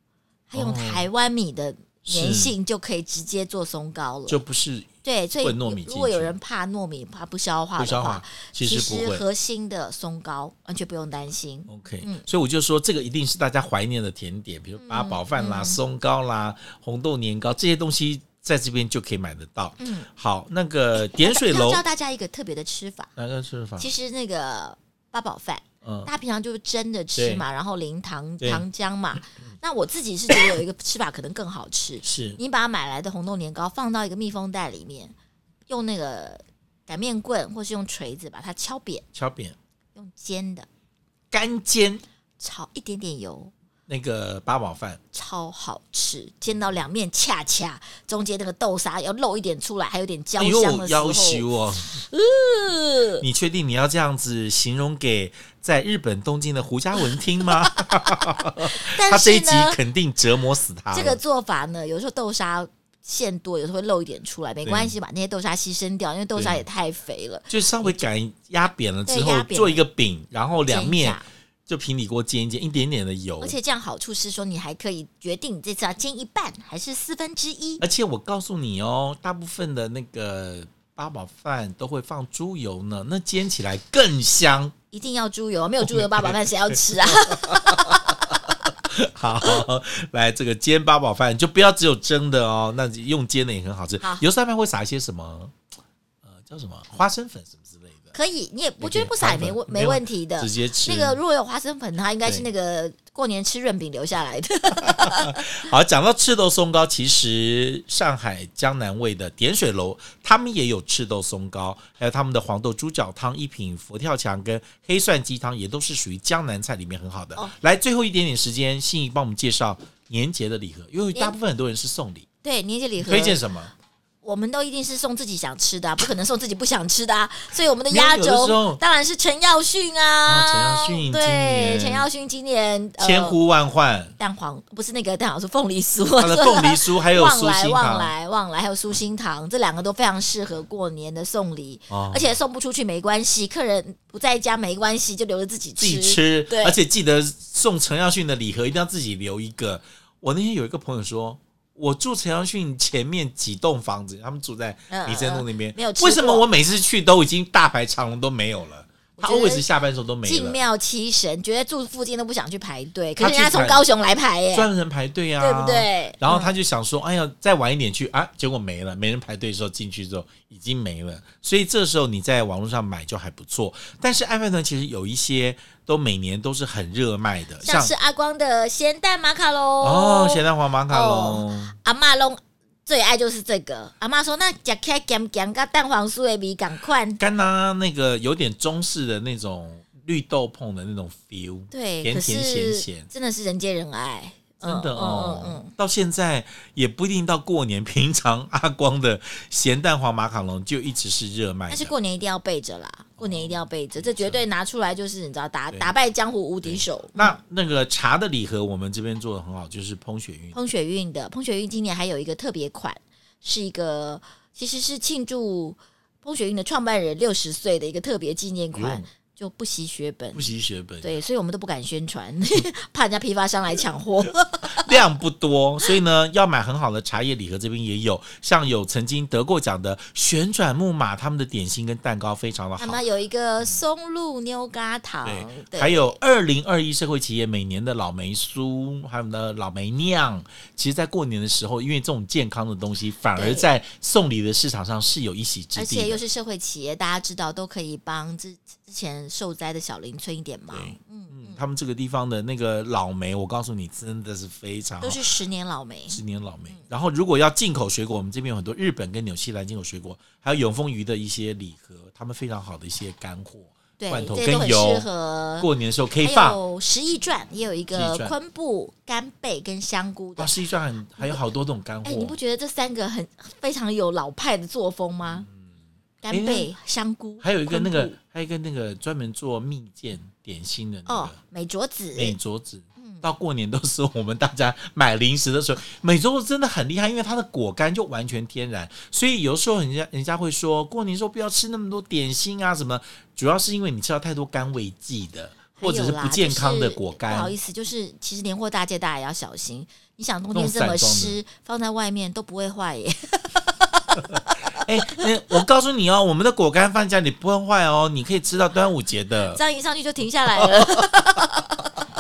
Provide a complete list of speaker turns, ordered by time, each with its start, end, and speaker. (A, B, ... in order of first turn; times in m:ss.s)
0:00.5-0:04.4 A
0:00.5-0:01.1 B
0:02.1-0:02.5 B
0:04.3-0:04.9 B
0:05.0-0:12.2 A
0:05.4-0:06.4 B
0:07.8-0:09.2 B
0:11.7-0:21.8 B
0:14.8-0:15.8 A
0:19.8-0:20.1 A
0:21.0-0:23.1 A
0:23.2-0:23.9 B
0:23.8-0:35.1 A
0:25.8-0:26.1 B
0:27.2-0:27.4 B
0:32.0-0:32.4 B
0:35.7-0:39.1 A
0:39.1-0:39.6 B
0:40.0-0:40.7 A
0:41.3-0:42.0 B
0:42.4-0:43.5 A
0:43.9-0:45.0 B
0:45.1-0:53.2 A
0:50.4-0:51.9 B
0:53.2-1:01.2 B
0:57.5-0:59.8 A
1:00.9-1:08.0 A
1:04.6-1:04.9 B
1:06.4-1:06.6 B
1:07.5-1:13.6 B
1:09.1-1:09.8 A
1:10.7-1:11.3 A
1:13.4-1:17.8 A
1:17.8-1:24.7 B
1:24.9-1:28.4 A
1:25.8-1:35.6 B
1:36.2-1:38.0 B
1:38.1-1:45.6 A
1:38.8-1:41.2 B
1:44.7-2:02.2 B
2:02.4-2:03.4 A
2:03.0-2:03.7 B
2:04.2-2:13.4 A
2:07.9-2:08.8 B
2:10.2-2:12.1 B
2:13.0-2:14.1 B
2:14.2-2:26.8 A
2:16.2-2:18.1 B
2:21.9-2:22.4 B
2:25.8-2:40.6 B
2:34.9-2:36.4 A
2:39.2-2:39.6 A
2:40.2-2:44.7 A
2:43.2-2:43.8 B
2:44.5-2:57.9 B
2:45.4-2:46.5 A
2:57.6-3:07.2 A
2:59.8-3:01.8 B
3:07.2-3:13.1 B
3:11.7-3:15.7 A
3:14.6-3:21.9 B
3:21.7-3:27.4 A
3:23.2-3:24.4 B
3:26.6-3:30.6 B
3:30.5-3:40.5 A
3:38.7-3:39.1 B
3:40.3-3:41.2 B
3:41.0-3:44.9 A
3:44.6-3:53.0 B
3:52.8-3:56.2 A
3:55.2-4:06.2 B
4:03.4-4:03.7 A
4:05.8-4:11.6 A
4:10.7-4:15.2 B
4:15.0-4:16.9 A
4:16.1-4:25.1 B
4:24.0-4:25.7 A
4:25.6-4:26.6 B
4:26.2-4:30.6 A
4:27.9-4:28.4 B
4:30.4-4:32.4 B
4:32.0-4:35.5 A
4:36.2-4:38.1 A
4:36.3-4:36.7 B
4:37.4-4:41.4 B
4:41.1-4:42.4 A
4:42.1-4:57.5 B
4:55.8-5:05.2 A
5:00.5-5:01.4 B
5:04.2-5:09.6 B
5:09.5-5:12.0 A
5:10.6-5:11.2 B